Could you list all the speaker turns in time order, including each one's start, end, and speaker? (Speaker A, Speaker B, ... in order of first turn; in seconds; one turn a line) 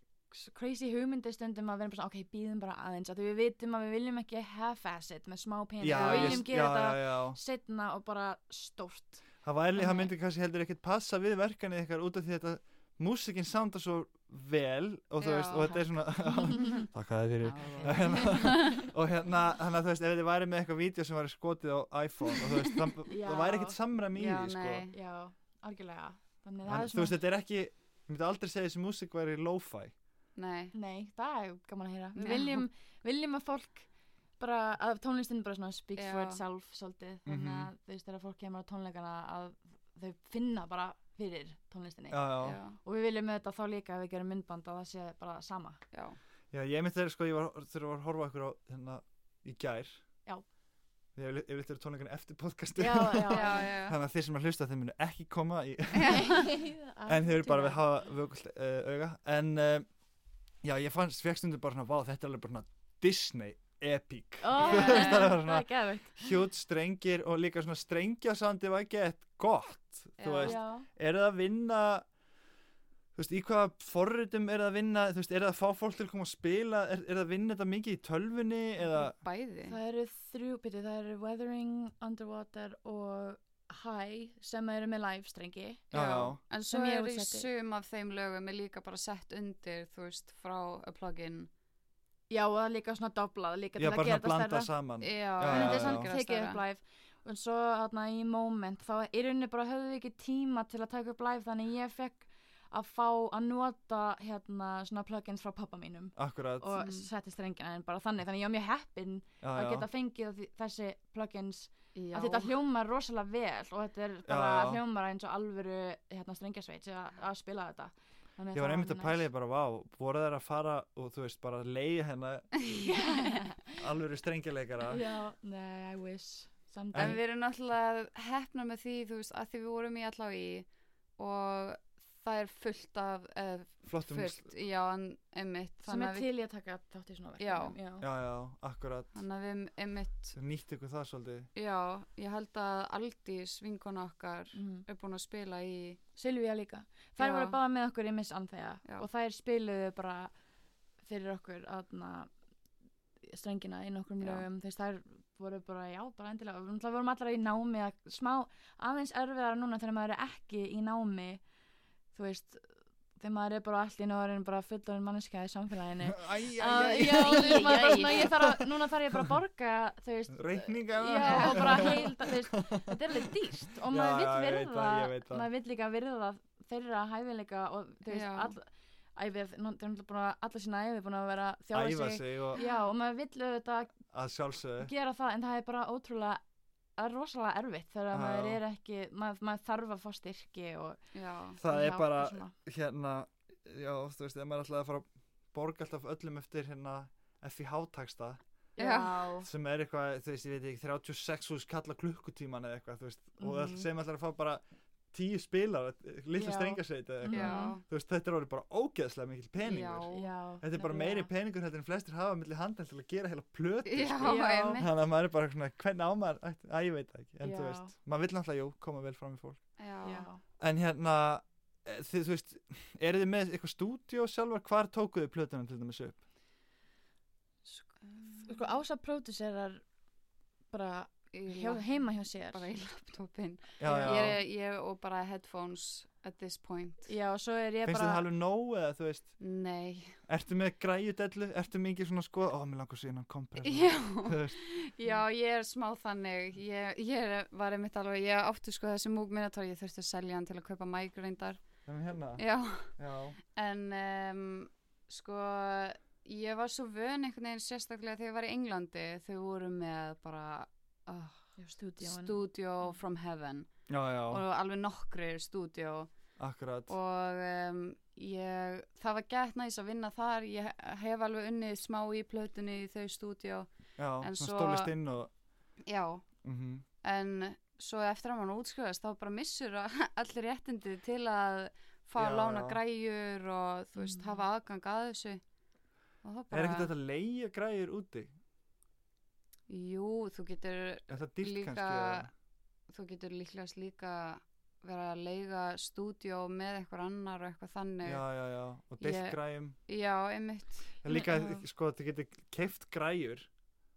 Speaker A: 0.3-10.1
Speaker B: 5.8-7.4
Speaker C: 5.9-6.5
Speaker B: 9.4-24.9
Speaker C: 15.2-15.8
Speaker A: 15.6-16.9
Speaker A: 17.4-18.8
Speaker C: 17.5-18.4
Speaker A: 23.1-23.8
Speaker C: 24.1-24.9
Speaker A: 24.9-27.2
Speaker B: 26.7-29.9
Speaker C: 30.4-30.8
Speaker A: 30.7-45.8
Speaker C: 32.1-32.6
Speaker C: 36.0-36.4
Speaker B: 37.3-37.7
Speaker B: 42.1-42.6
Speaker C: 42.4-42.8
Speaker C: 45.9-46.2
Speaker B: 46.5-50.0
Speaker B: 51.1-56.6
Speaker A: 52.8-53.7
Speaker C: 53.3-54.0
Speaker A: 56.1-57.8
Speaker B: 57.1-59.9
Speaker B: 60.6-72.1
Speaker A: 64.4-66.3
Speaker C: 64.7-65.3
Speaker C: 70.2-70.6
Speaker A: 70.4-70.9
Speaker B: 73.2-79.2
Speaker C: 78.9-79.8
Speaker A: 79.7-85.8
Speaker B: 85.9-86.4
Speaker C: 85.9-91.5
Speaker A: 86.7-87.5
Speaker A: 92.3-94.7
Speaker B: 93.8-96.1
Speaker C: 95.0-96.6
Speaker A: 95.5-119.3
Speaker B: 106.2-106.8
Speaker C: 106.8-107.1
Speaker B: 109.4-109.9
Speaker C: 112.0-112.5
Speaker B: 114.3-114.8
Speaker B: 118.5-122.6
Speaker A: 122.8-123.7
Speaker B: 123.7-125.0
Speaker A: 124.9-127.2
Speaker B: 126.9-127.2
Speaker C: 126.9-136.3
Speaker B: 133.9-134.5
Speaker A: 135.8-138.1
Speaker C: 137.4-137.8
Speaker B: 138.0-139.1
Speaker C: 139.1-140.4
Speaker B: 140.3-141.5
Speaker C: 141.6-146.0
Speaker A: 144.5-144.8
Speaker A: 146.2-150.3
Speaker C: 147.2-147.6
Speaker A: 151.1-152.3
Speaker A: 153.2-161.4
Speaker C: 154.2-154.5
Speaker A: 162.1-162.7
Speaker A: 163.2-184.0
Speaker B: 166.1-168.7
Speaker C: 167.4-167.9
Speaker B: 170.3-173.2
Speaker C: 171.2-172.0
Speaker B: 173.9-175.5
Speaker C: 178.1-178.5
Speaker B: 181.7-182.6
Speaker B: 184.1-184.9
Speaker A: 184.8-186.4
Speaker A: 187.0-191.0
Speaker B: 188.1-188.6
Speaker C: 191.1-191.6
Speaker B: 191.6-198.4
Speaker A: 191.7-192.5
Speaker C: 198.8-199.3
Speaker A: 198.8-199.5
Speaker B: 199.4-219.8
Speaker A: 203.4-203.9
Speaker A: 206.3-207.8
Speaker C: 207.3-207.8
Speaker C: 209.6-210.3
Speaker A: 210.1-211.3
Speaker C: 213.9-214.9
Speaker A: 214.2-214.8
Speaker A: 217.4-217.9
Speaker C: 219.8-220.3
Speaker A: 220.0-220.4
Speaker B: 220.6-226.2
Speaker C: 227.7-228.5
Speaker A: 228.4-229.8
Speaker A: 230.7-232.7
Speaker C: 231.3-237.1
Speaker B: 233.8-234.4
Speaker A: 233.8-234.4
Speaker A: 237.1-238.3
Speaker B: 237.8-239.4
Speaker C: 239.4-240.2
Speaker B: 240.3-244.6
Speaker C: 243.6-253.0
Speaker B: 251.9-253.4
Speaker C: 253.5-266.2
Speaker A: 261.6-262.4
Speaker B: 263.9-264.4
Speaker B: 266.4-266.9
Speaker C: 266.9-274.9
Speaker B: 274.0-275.3
Speaker C: 275.9-276.4
Speaker B: 276.4-276.8
Speaker C: 277.0-285.4
Speaker B: 282.2-282.8
Speaker A: 284.0-284.4
Speaker C: 286.2-286.9
Speaker B: 286.5-288.3
Speaker C: 289.7-292.3
Speaker B: 291.1-292.3
Speaker C: 292.9-298.3
Speaker B: 298.0-299.8
Speaker C: 299.0-301.0
Speaker B: 301.0-303.5
Speaker A: 301.1-301.6